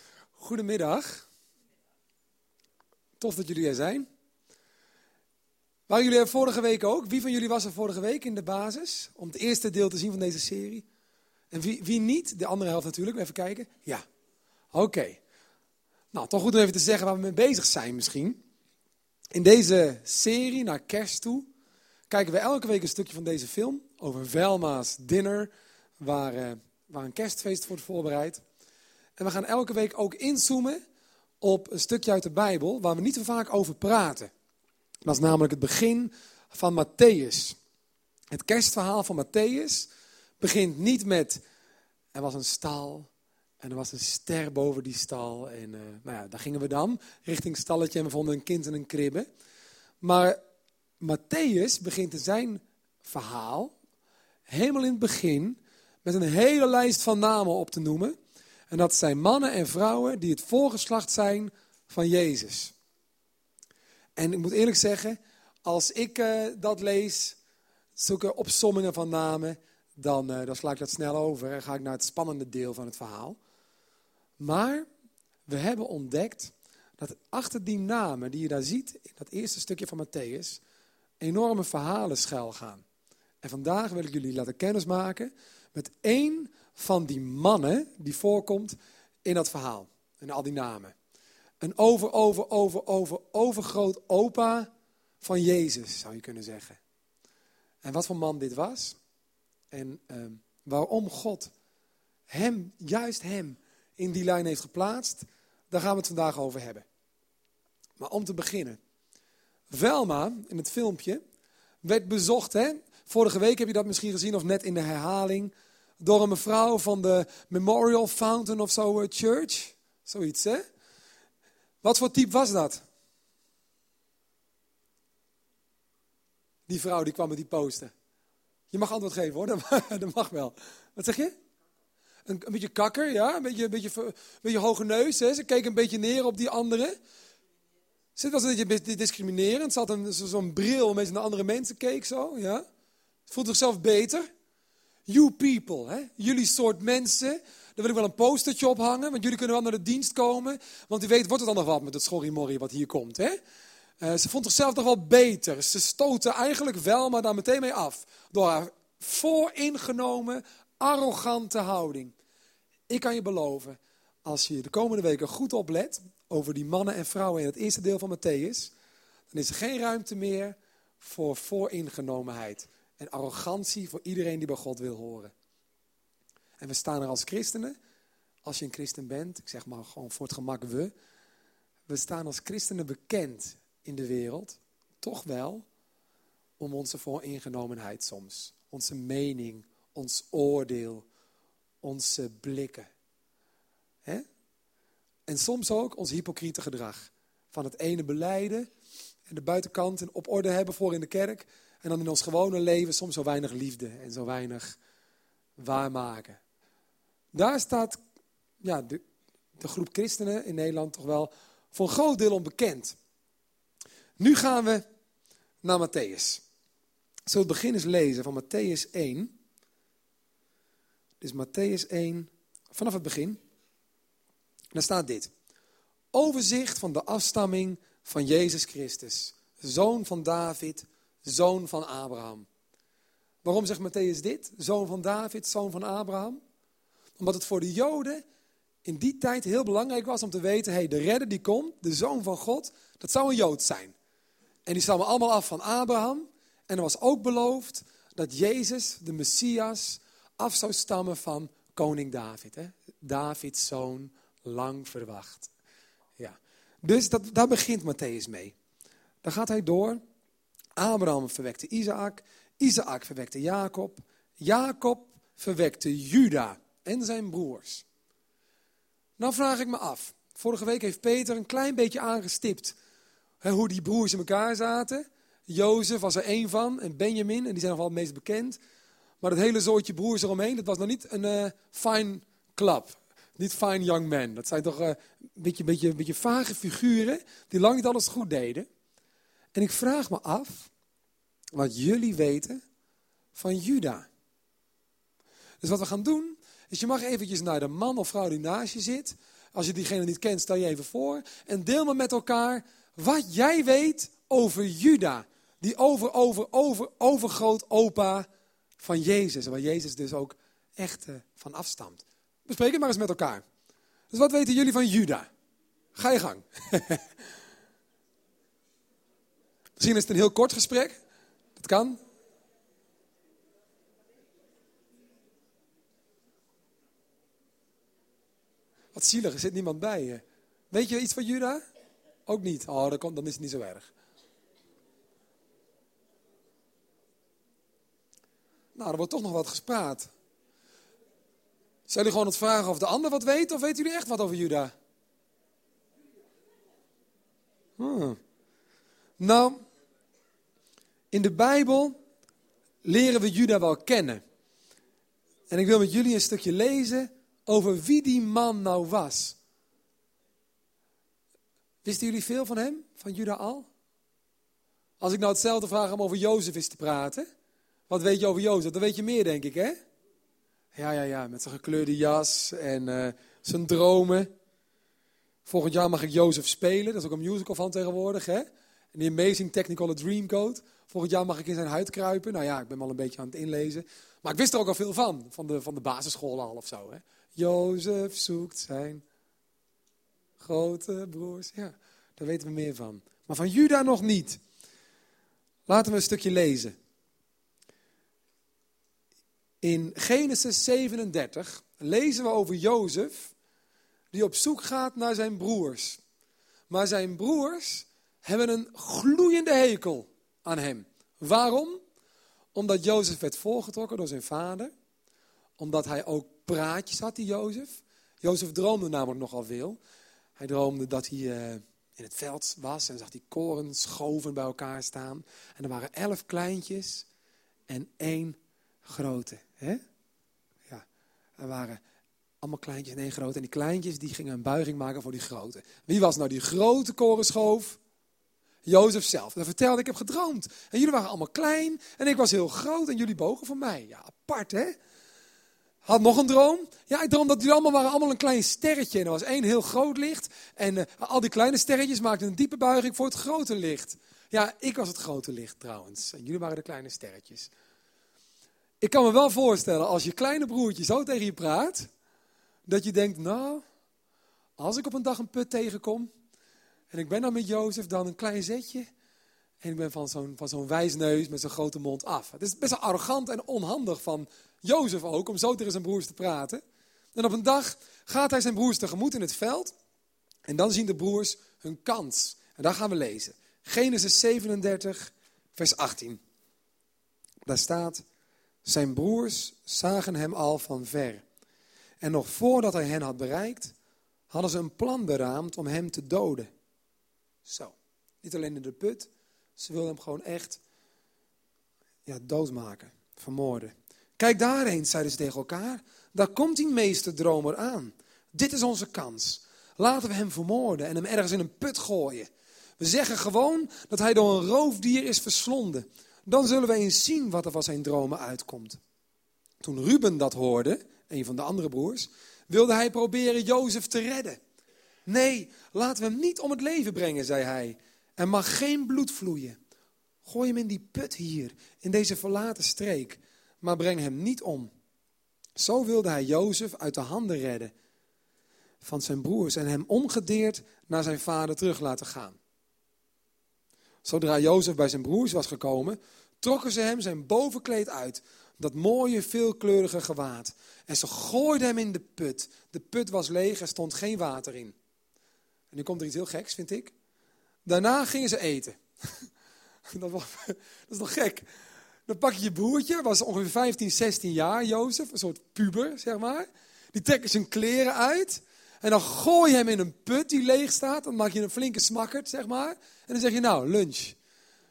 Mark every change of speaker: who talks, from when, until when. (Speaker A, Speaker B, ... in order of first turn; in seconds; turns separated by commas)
Speaker A: 0.3-1.3, Speaker A: 3.2-4.1, Speaker A: 5.9-10.8, Speaker A: 11.5-14.0, Speaker A: 14.7-15.2, Speaker A: 16.1-18.4, Speaker A: 19.3-21.5, Speaker A: 22.1-28.4, Speaker A: 29.2-30.8, Speaker A: 31.4-34.3, Speaker A: 35.0-37.6, Speaker A: 38.3-39.9, Speaker A: 40.4-41.4, Speaker A: 42.1-43.1, Speaker A: 43.6-49.3, Speaker A: 50.0-50.4, Speaker A: 51.0-53.7, Speaker A: 54.5-58.1, Speaker A: 58.7-62.7, Speaker A: 64.2-67.4, Speaker A: 68.0-73.4, Speaker A: 74.4-74.9, Speaker A: 75.5-80.6, Speaker A: 81.2-82.8, Speaker A: 83.4-90.9, Speaker A: 91.6-94.7, Speaker A: 95.2-96.8, Speaker A: 97.8-99.0, Speaker A: 99.7-101.5, Speaker A: 102.3-106.8, Speaker A: 108.0-108.8, Speaker A: 109.7-111.2, Speaker A: 111.8-120.6, Speaker A: 121.8-122.8, Speaker A: 126.7-127.9, Speaker A: 128.7-131.3, Speaker A: 132.2-136.9, Speaker A: 138.2-142.6, Speaker A: 143.3-144.3, Speaker A: 145.1-153.4, Speaker A: 154.0-162.1, Speaker A: 162.9-168.7, Speaker A: 169.3-175.3, Speaker A: 176.6-177.7, Speaker A: 178.4-180.9, Speaker A: 181.9-185.6, Speaker A: 186.6-191.1, Speaker A: 191.8-192.9, Speaker A: 195.3-198.7, Speaker A: 199.3-204.8, Speaker A: 205.6-206.4, Speaker A: 207.3-208.0, Speaker A: 208.6-209.0, Speaker A: 209.6-212.9, Speaker A: 214.2-214.8, Speaker A: 215.6-216.4, Speaker A: 217.3-219.3, Speaker A: 221.2-223.4, Speaker A: 224.7-225.3, Speaker A: 226.1-232.5, Speaker A: 233.4-236.4, Speaker A: 237.2-238.2, Speaker A: 238.8-243.9, Speaker A: 244.7-255.5, Speaker A: 256.2-258.5, Speaker A: 259.2-260.0, Speaker A: 260.8-267.8, Speaker A: 269.2-272.8, Speaker A: 273.4-278.6, Speaker A: 279.2-288.7, Speaker A: 289.5-290.7, Speaker A: 291.5-292.6, Speaker A: 293.3-294.1, Speaker A: 295.6-308.3, Speaker A: 308.8-313.4, Speaker A: 314.1-315.3, Speaker A: 315.9-317.1, Speaker A: 319.8-321.0, Speaker A: 321.6-322.0, Speaker A: 328.9-331.6, Speaker A: 332.2-333.9, Speaker A: 338.7-340.1, Speaker A: 341.9-344.7, Speaker A: 347.8-348.2, Speaker A: 349.2-349.6, Speaker A: 351.1-351.9, Speaker A: 352.8-354.2, Speaker A: 355.5-359.4, Speaker A: 361.8-363.7, Speaker A: 365.0-367.3, Speaker A: 367.9-369.8, Speaker A: 370.7-374.3, Speaker A: 375.4-389.0, Speaker A: 390.4-394.4, Speaker A: 395.7-396.7, Speaker A: 399.6-403.3, Speaker A: 404.1-406.0, Speaker A: 406.7-411.8, Speaker A: 412.5-414.7, Speaker A: 415.6-419.8, Speaker A: 420.4-427.1, Speaker A: 427.7-429.8, Speaker A: 431.4-431.8, Speaker A: 432.4-437.8, Speaker A: 438.6-444.7, Speaker A: 445.8-457.5, Speaker A: 458.8-461.9, Speaker A: 462.7-463.6, Speaker A: 464.6-466.1, Speaker A: 466.9-468.9, Speaker A: 469.6-476.6, Speaker A: 477.1-479.7, Speaker A: 480.4-486.2, Speaker A: 487.4-488.0, Speaker A: 488.6-491.2, Speaker A: 492.0-493.7, Speaker A: 494.3-496.5, Speaker A: 497.4-500.6, Speaker A: 502.1-518.8, Speaker A: 519.6-524.4, Speaker A: 525.0-529.6, Speaker A: 530.2-534.7, Speaker A: 535.6-537.7, Speaker A: 538.8-542.4, Speaker A: 544.0-554.8, Speaker A: 555.7-556.9, Speaker A: 557.6-559.3, Speaker A: 559.9-561.5, Speaker A: 562.1-574.2